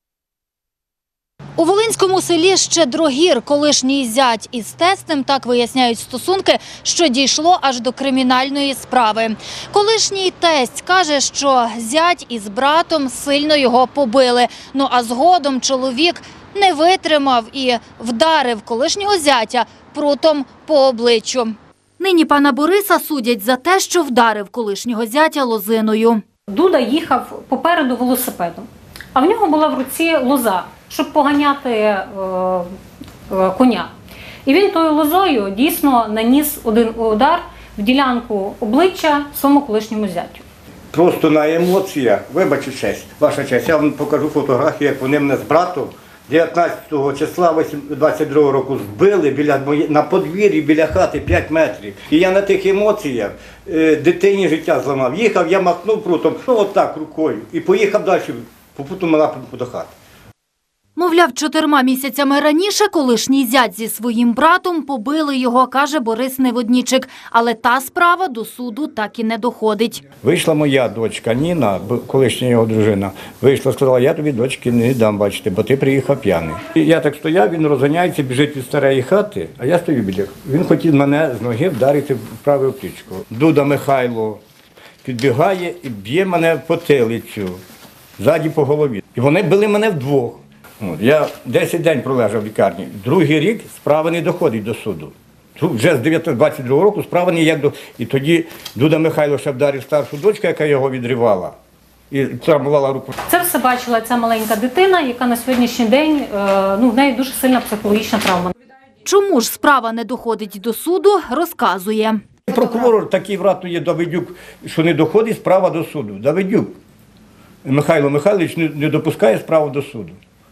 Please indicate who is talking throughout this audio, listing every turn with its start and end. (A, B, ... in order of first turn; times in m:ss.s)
0:01.6-0:26.2 A
0:26.5-0:32.7 B
0:33.3-0:33.9 B
0:34.4-0:40.4 B
0:40.9-0:59.9 C
1:01.0-1:10.0 A
1:10.2-1:24.4 C
1:25.0-1:27.6 C
1:28.2-1:41.5 C
1:42.1-1:43.1 C
1:43.3-1:48.5 B
1:49.0-1:52.8 A
1:52.5-1:56.7 C
1:57.6-2:00.2 C